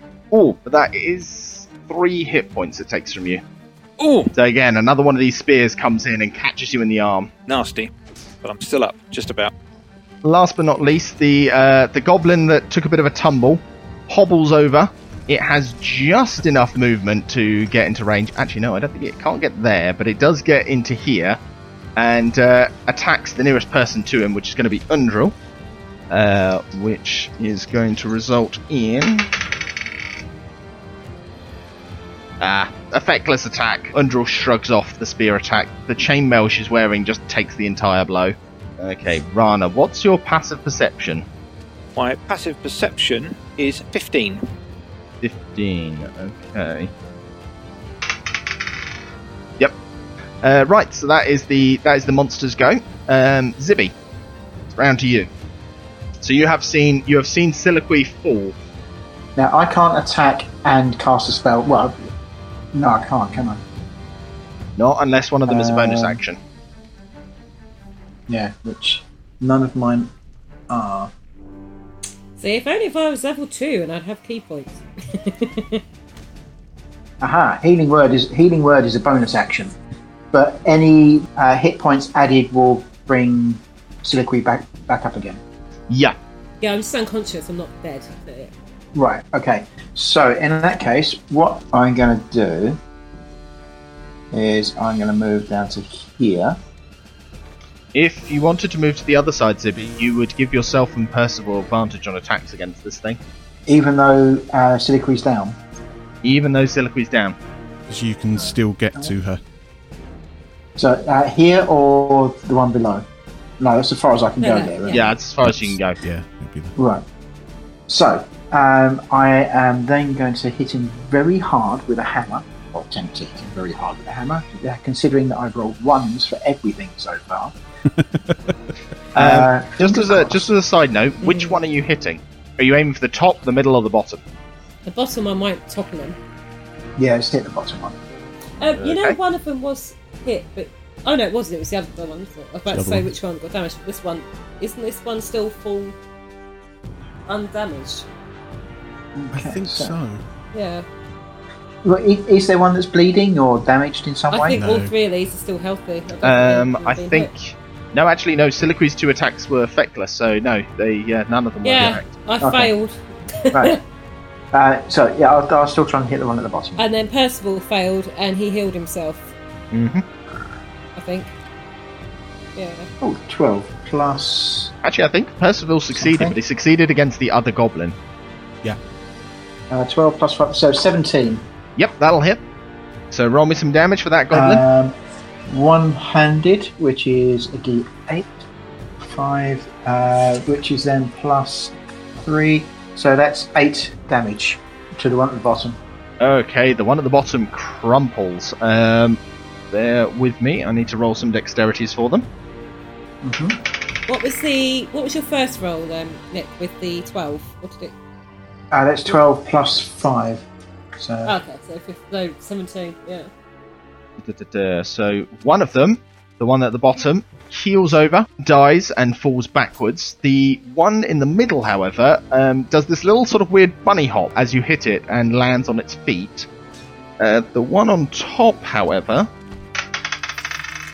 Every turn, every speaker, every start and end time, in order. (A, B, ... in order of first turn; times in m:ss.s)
0:00.3-0:03.4 A
0:04.0-0:04.3 B
0:04.3-0:07.3 A
0:07.5-0:07.9 B
0:08.4-0:09.5 B
0:10.2-0:21.4 A
0:22.0-0:25.4 A
0:26.1-0:29.3 A
0:32.4-0:41.2 A
0:42.0-0:44.4 B
0:45.2-0:46.9 A
0:50.4-0:53.9 A
0:54.7-0:55.3 A
0:56.2-0:58.6 A
0:59.4-1:02.1 C
1:02.7-1:03.6 C
1:04.8-1:06.4 A
1:05.5-1:06.2 C
1:08.3-1:10.1 C
1:10.7-1:11.1 C
1:12.4-1:15.8 D
1:17.2-1:19.8 C
1:20.3-1:25.4 C
1:25.9-1:26.2 A
1:26.6-1:28.5 D
1:28.9-1:32.8 C
1:34.3-1:36.6 C
1:37.9-1:43.2 A
1:43.7-1:45.6 C
1:46.2-1:47.4 A
1:47.9-1:49.4 E
1:50.8-1:53.1 C
1:53.6-1:55.0 C
1:54.4-1:55.1 D
1:54.9-1:56.0 A
1:55.4-1:56.7 E
1:56.8-1:57.0 C
1:57.9-2:07.6 C
2:08.0-2:08.5 E
2:09.2-2:10.5 C
2:09.2-2:14.2 A
2:14.9-2:16.2 D
2:17.0-2:18.0 C
2:18.6-2:26.0 D
2:18.8-2:19.2 A
2:22.7-2:23.1 E
2:27.3-2:28.1 D
2:29.2-2:30.0 C
2:29.3-2:30.2 E
2:30.5-2:30.8 D
2:31.8-2:34.6 C
2:34.3-2:37.3 D
2:34.5-2:34.9 E
2:36.2-2:42.1 A
2:41.6-2:43.8 D
2:42.4-2:42.7 C
2:43.5-2:43.8 C
2:44.5-2:46.9 C
2:46.8-2:49.3 D
2:49.7-2:50.1 A
2:51.0-2:51.3 D
2:52.6-2:52.9 D
2:53.0-2:54.7 C
2:54.8-2:58.0 A
2:55.9-2:56.4 C
2:59.7-3:01.4 C
3:01.8-3:02.4 A
3:03.1-3:04.6 A
3:04.3-3:05.0 C
3:05.5-3:08.4 C
3:09.0-3:15.8 C
3:16.2-3:19.2 A
3:19.7-3:22.3 A
3:23.2-3:23.6 C
3:24.1-3:28.0 D
3:28.7-3:30.4 C
3:31.0-3:31.4 C
3:31.3-3:33.3 D
3:34.2-3:46.5 A
3:47.2-3:49.3 A